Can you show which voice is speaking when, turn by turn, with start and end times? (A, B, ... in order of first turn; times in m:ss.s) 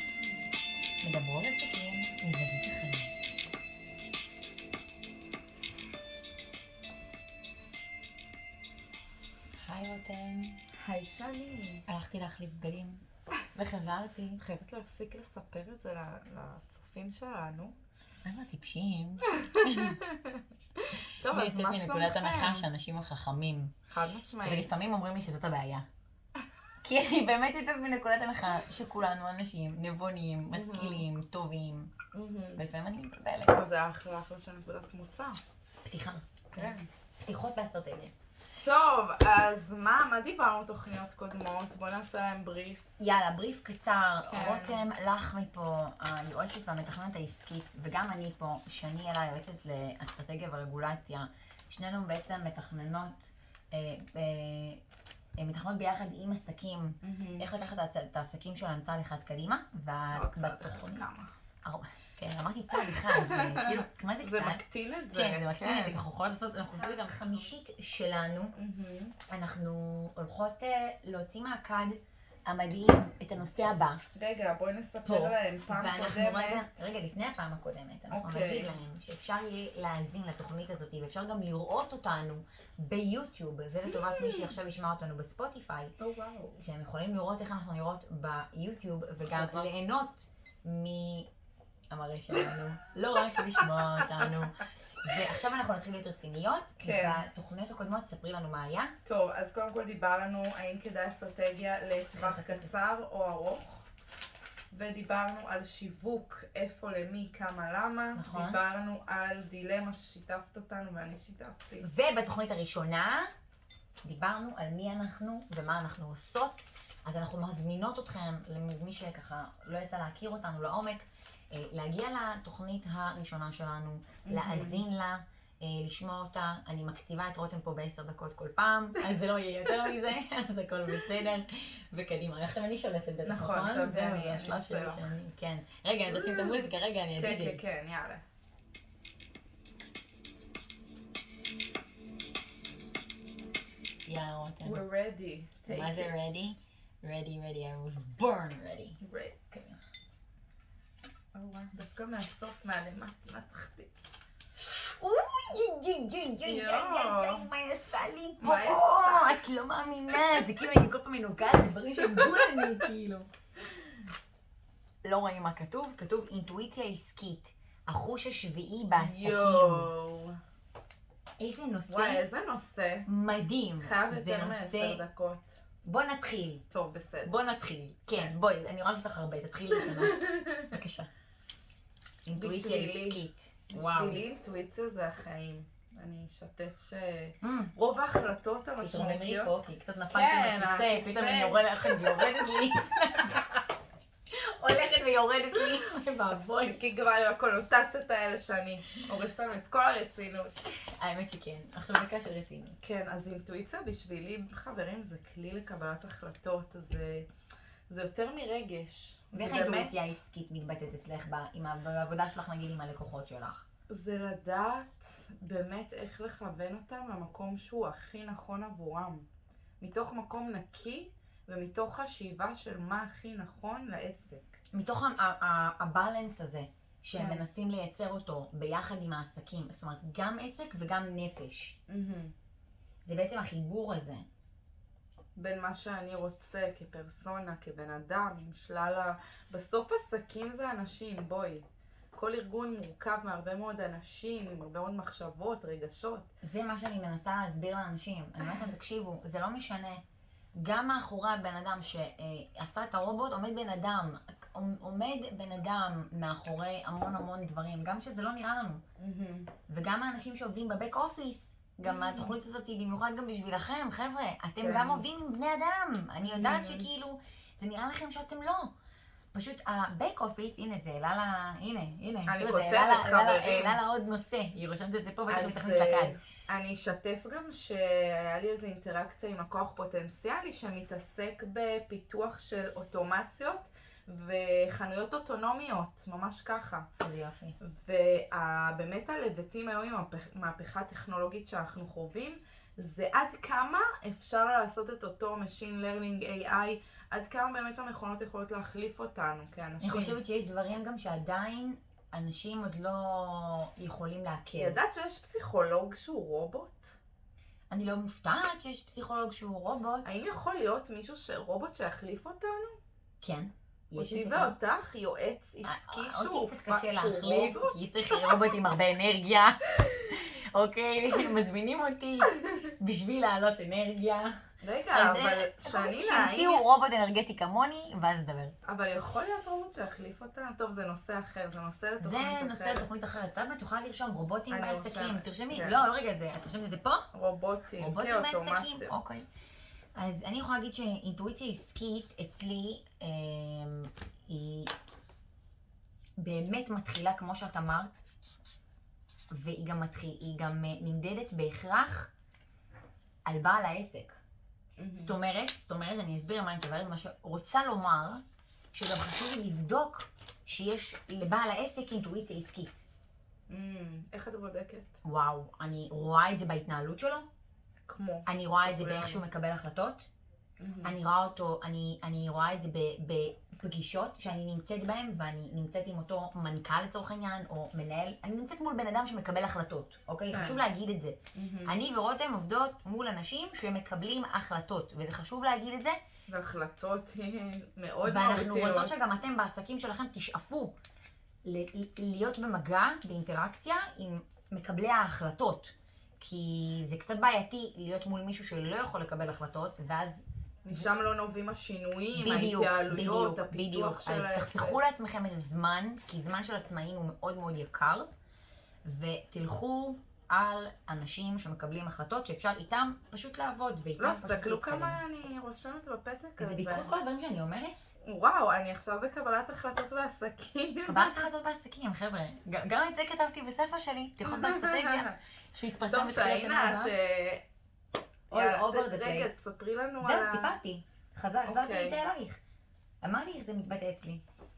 0:01.0-0:03.1 A
0:09.6-0:10.6 A
0:10.8-0:11.8 B
0:11.9-0:13.0 A
0:13.6-0:14.4 A
0:14.4-0:17.8 B
0:18.2-0:20.0 A
0:19.2-0:22.7 B
0:21.3-0:23.8 A
0:23.9-0:24.9 B
0:24.4-0:25.9 A
0:26.8-0:31.9 A
0:30.5-0:31.1 B
0:32.1-0:32.6 B
0:32.6-0:33.6 A
0:33.5-0:35.4 B
0:35.8-0:38.1 A
0:36.6-0:36.8 B
0:38.6-0:43.0 B
0:43.0-0:54.8 A
0:44.2-0:44.9 B
0:55.4-1:01.0 A
0:57.0-0:57.5 B
1:00.1-1:01.3 B
1:01.6-1:08.6 A
1:02.7-1:06.0 B
1:06.8-1:07.3 B
1:08.6-1:09.2 B
1:09.3-1:14.0 A
1:14.1-1:16.9 B
1:15.1-1:25.9 A
1:18.1-1:18.7 B
1:23.9-1:24.5 B
1:26.0-1:26.6 B
1:26.6-1:31.3 A
1:29.3-1:29.7 B
1:31.9-1:38.9 A
1:33.4-1:33.6 B
1:36.8-1:37.2 B
1:39.0-1:43.9 B
1:42.2-1:42.7 A
1:44.7-1:51.8 B
1:48.2-1:48.6 A
1:51.8-1:53.3 A
1:54.0-2:17.6 A
2:04.2-2:04.8 B
2:13.2-2:15.2 B
2:16.2-2:16.6 B
2:17.2-2:18.2 B
2:24.1-2:24.8 A
2:24.6-2:26.2 B
2:25.7-2:29.0 A
2:29.0-2:29.6 B
2:31.3-2:33.9 B
2:34.6-2:43.3 A
2:36.4-2:37.5 B
2:38.4-2:39.4 B
2:42.0-2:42.9 B
2:45.0-2:49.9 A
2:49.0-2:50.4 B
2:51.4-2:52.2 A
2:51.9-2:53.1 B
2:53.1-2:55.0 A
2:53.8-2:55.6 B
2:55.8-2:56.6 A
2:56.7-2:57.3 B
2:57.2-3:01.1 A
2:59.7-3:00.8 B
3:02.3-3:04.2 A
3:02.4-3:09.5 B
3:07.4-3:07.7 A
3:08.8-3:13.6 A
3:10.1-3:12.4 B
3:14.3-3:16.8 A
3:16.3-3:20.5 B
3:21.0-3:22.8 A
3:22.8-3:27.3 B
3:27.9-3:30.2 B
3:29.3-3:33.6 A
3:33.9-3:39.2 B
3:39.8-3:44.6 B
3:44.7-3:51.8 A
3:47.2-3:47.5 B
3:51.9-3:52.3 B
3:53.1-3:54.2 A
3:55.4-4:06.3 B
4:06.4-4:10.0 A
4:10.6-4:18.8 A
4:19.0-4:19.5 B
4:19.7-4:28.7 A
4:21.9-4:22.4 B
4:24.6-4:25.1 B
4:26.2-4:26.9 B
4:29.3-4:36.2 A
4:32.3-4:33.8 B
4:35.3-4:46.9 B
4:47.0-4:47.6 A
4:47.6-5:00.2 B
4:59.8-5:04.8 A
5:04.6-5:07.0 B
5:07.7-5:10.1 A
5:10.0-5:12.8 B
5:13.2-5:14.6 A
5:13.9-5:17.8 B
5:15.6-5:24.4 A
5:22.2-5:22.6 B
5:24.6-5:26.6 B
5:24.9-5:28.5 A
5:28.6-5:32.9 B
5:32.0-5:37.1 A
5:34.5-5:35.8 B
5:37.1-5:39.0 B
5:37.8-5:39.3 A
5:40.0-5:44.7 A
5:46.2-5:48.0 A
5:49.3-5:52.1 A
5:53.3-5:54.2 A
5:54.8-5:55.2 B
5:55.0-6:02.8 A
6:03.5-6:05.0 B
6:05.0-6:07.3 A
6:07.9-6:09.2 B
6:08.3-6:10.1 A
6:10.6-6:11.0 B
6:10.8-6:26.0 A
6:20.3-6:20.6 B
6:21.3-6:21.8 B
6:26.3-6:29.1 B
6:28.0-6:30.8 A
6:31.4-6:40.2 A
6:40.6-6:44.8 B
6:42.2-6:48.1 A
6:48.8-6:55.0 A
6:54.0-6:57.0 B
6:56.4-6:57.8 A
6:58.0-7:01.3 B
7:00.9-7:06.9 A
7:04.2-7:05.2 B
7:05.9-7:07.4 B
7:08.3-7:10.6 B
7:08.3-7:09.3 A
7:10.0-7:12.4 A
7:11.4-7:12.0 B
7:13.0-7:14.2 A